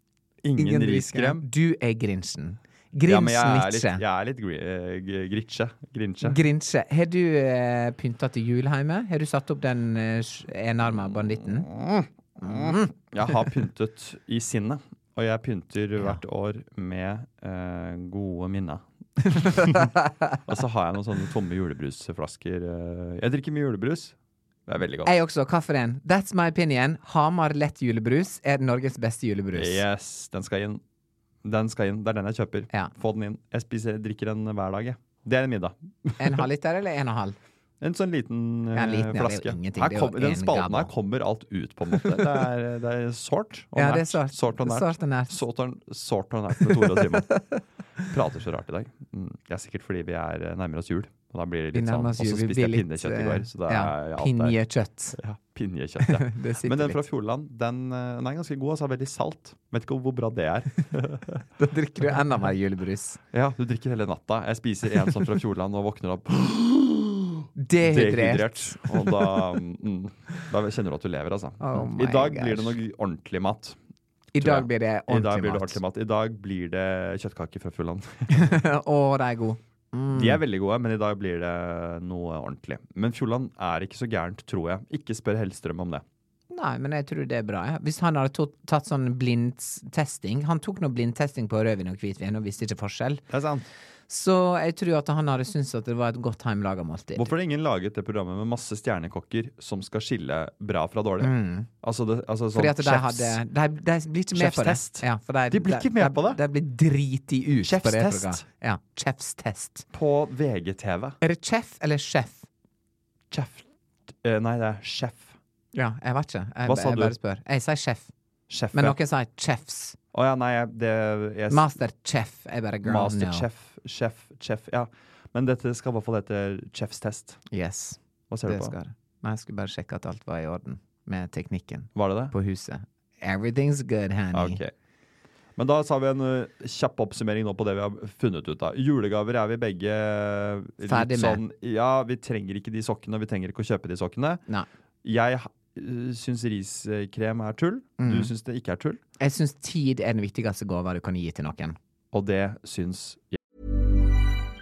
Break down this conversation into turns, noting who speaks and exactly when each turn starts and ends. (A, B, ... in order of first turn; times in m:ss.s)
0:00.4-0:01.5 A
0:00.6-0:04.0 B
0:03.1-0:06.4 A
0:06.2-0:11.7 B
0:11.0-0:19.9 A
0:12.4-0:12.9 B
0:19.4-0:20.4 B
0:20.5-0:24.2 A
0:24.7-0:25.1 A
0:25.0-0:29.8 B
0:29.5-0:30.8 A
0:31.4-0:36.5 A
0:36.2-0:37.4 B
0:37.8-0:47.4 A
0:38.7-0:40.9 B
0:42.0-0:42.4 B
0:43.8-0:45.4 B
0:46.6-0:47.5 B
0:48.0-0:54.6 A
0:51.7-0:55.2 B
0:55.2-1:01.4 A
0:56.0-0:57.0 B
1:01.6-1:03.2 B
1:03.3-1:13.8 A
1:07.6-1:09.5 B
1:11.6-1:12.8 B
1:14.3-1:15.8 B
1:14.4-1:18.5 A
1:18.3-1:20.4 B
1:20.1-1:26.0 A
1:26.5-1:33.2 B
1:33.3-1:33.7 A
1:34.1-1:37.3 B
1:37.2-1:43.4 A
1:41.2-1:41.7 B
1:42.5-1:49.9 B
1:44.3-1:46.4 A
1:47.6-1:48.4 A
1:49.9-1:51.2 A
1:51.2-1:52.5 B
1:53.3-1:53.7 A
1:54.2-1:55.4 A
1:55.7-1:58.1 B
1:56.6-1:57.2 A
1:58.5-1:59.0 A
1:58.7-2:00.0 B
2:00.1-2:01.7 A
2:01.5-2:03.5 B
2:02.8-2:07.4 A
2:07.5-2:14.6 B
2:08.3-2:08.8 A
2:12.0-2:12.3 A
2:14.3-2:14.7 A
2:15.6-2:24.4 A
2:20.9-2:21.4 B
2:25.0-2:29.0 A
2:28.0-2:28.3 B
2:29.2-2:31.8 B
2:32.1-2:33.4 A